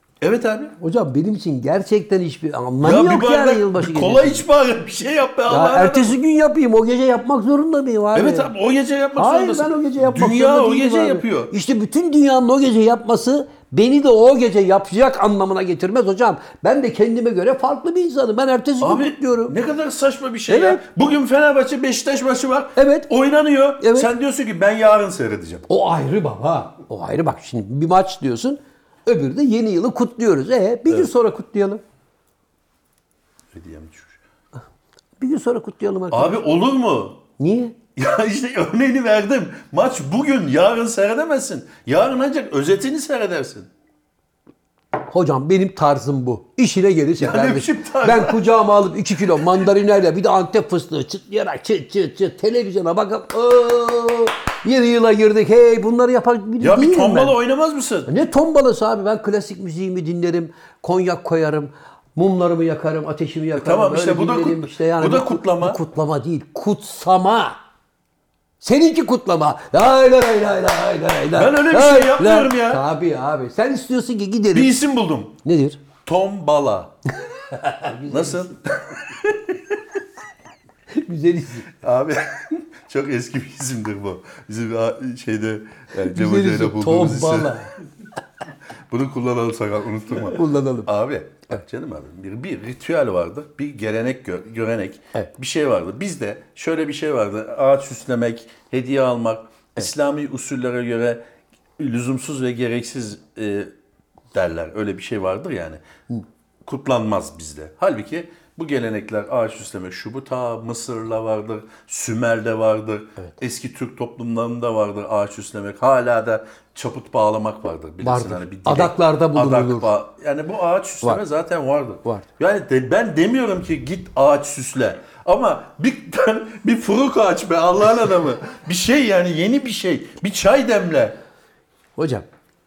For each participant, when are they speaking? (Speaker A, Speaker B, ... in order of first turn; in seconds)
Speaker A: 0.2-0.8, 2.8-6.2, 8.1-11.5, 18.8-25.6, 33.5-34.2, 36.1-37.2, 38.0-43.7, 47.2-48.5, 56.6-58.1, 63.6-65.8, 71.3-72.8, 74.5-75.4, 76.0-76.9, 78.1-79.8, 81.7-87.5, 88.9-101.2, 101.8-103.7, 104.3-105.8, 106.7-131.2
Speaker B: 0.8-4.5, 5.5-8.5, 9.2-19.6, 20.5-20.8, 22.8-23.1, 23.8-24.1, 25.7-31.8, 35.2-36.4, 37.4-37.8, 45.1-57.4, 58.1-67.6, 68.6-74.8, 75.4-75.8, 77.5-78.5, 80.9-81.7, 85.9-87.7, 90.2-90.9, 118.0-119.9, 132.0-132.3